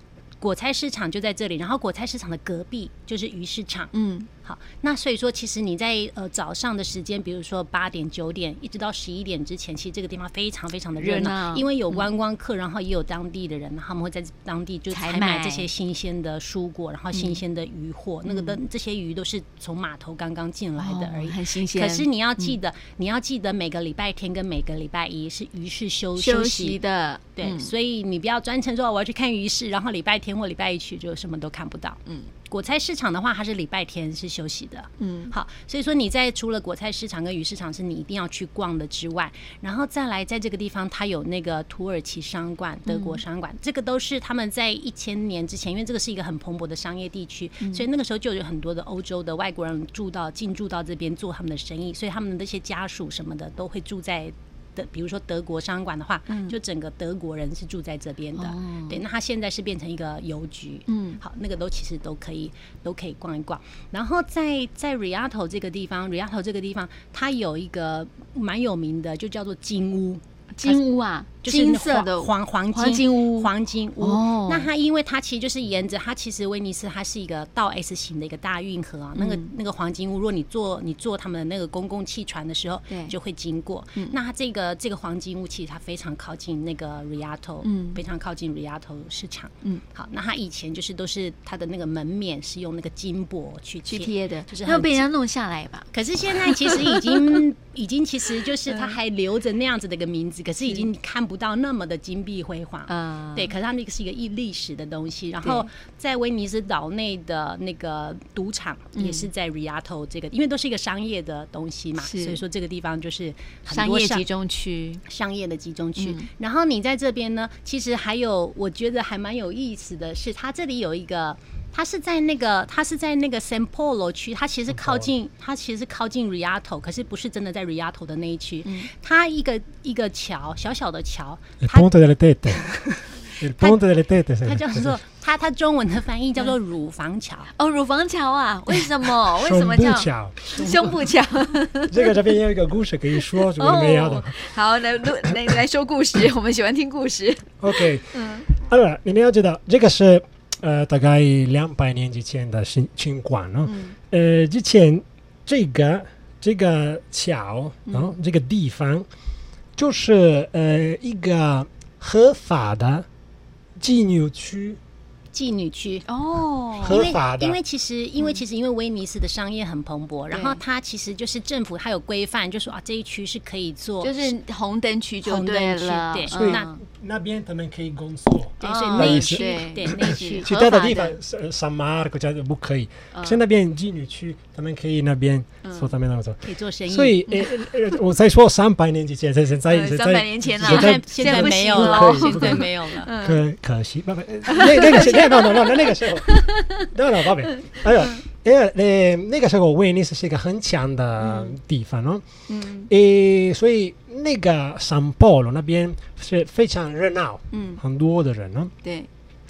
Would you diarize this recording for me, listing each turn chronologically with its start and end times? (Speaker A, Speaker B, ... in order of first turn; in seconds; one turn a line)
Speaker A: 0.4-3.9
Speaker B: 3.9-4.3
Speaker A: 4.4-26.8
Speaker B: 10.9-12.1
Speaker B: 14.9-15.7
Speaker B: 17.1-17.4
Speaker B: 18.3-18.6
Speaker B: 20.8-22.6
Speaker B: 26.1-27.7
Speaker A: 27.4-70.8
Speaker B: 35.0-35.3
Speaker B: 42.9-43.2
Speaker B: 47.6-47.9
Speaker B: 56.3-56.6
Speaker B: 58.3-59.0
Speaker B: 60.9-61.2
Speaker B: 70.5-74.7
Speaker A: 71.4-95.1
Speaker B: 79.2-79.5
Speaker B: 82.9-83.1
Speaker B: 87.6-88.0
Speaker B: 93.8-95.9
Speaker A: 95.9-114.2
Speaker B: 96.4-97.2
Speaker B: 98.7-99.0
Speaker B: 102.9-103.5
Speaker B: 105.4-105.7
Speaker B: 108.9-109.3
Speaker B: 112.0-112.4
Speaker B: 113.7-115.0
Speaker A: 115.0-131.9
Speaker B: 116.0-116.3
Speaker C: 124.7-125.1
Speaker B: 128.6-128.9
Speaker C: 131.6-132.8
Speaker C: 133.3-134.9
Speaker A: 134.4-137.5
Speaker B: 137.6-142.1
Speaker C: 139.2-141.0
Speaker C: 141.9-144.4
Speaker B: 143.4-148.5
Speaker C: 147.6-159.1
Speaker B: 153.7-153.9
Speaker B: 157.8-158.2
Speaker C: 159.8-163.1
Speaker C: 163.8-164.8
Speaker A: 165.3-166.1
Speaker B: 166.1-167.1
Speaker C: 166.8-167.6
Speaker A: 166.8-174.3
Speaker B: 170.3-170.6
Speaker B: 174.0-176.8
Speaker A: 175.2-176.7
Speaker C: 176.3-202.2
Speaker A: 178.6-180.5
Speaker B: 178.6-181.2
Speaker B: 183.1-183.4
Speaker B: 185.6-185.9
Speaker A: 186.4-187.2
Speaker B: 189.7-193.4
Speaker A: 190.6-193.1
Speaker B: 194.4-196.8
Speaker B: 201.2-201.5
Speaker B: 202.5-202.9
Speaker C: 202.9-208.7
Speaker B: 207.5-207.8
Speaker B: 208.8-209.1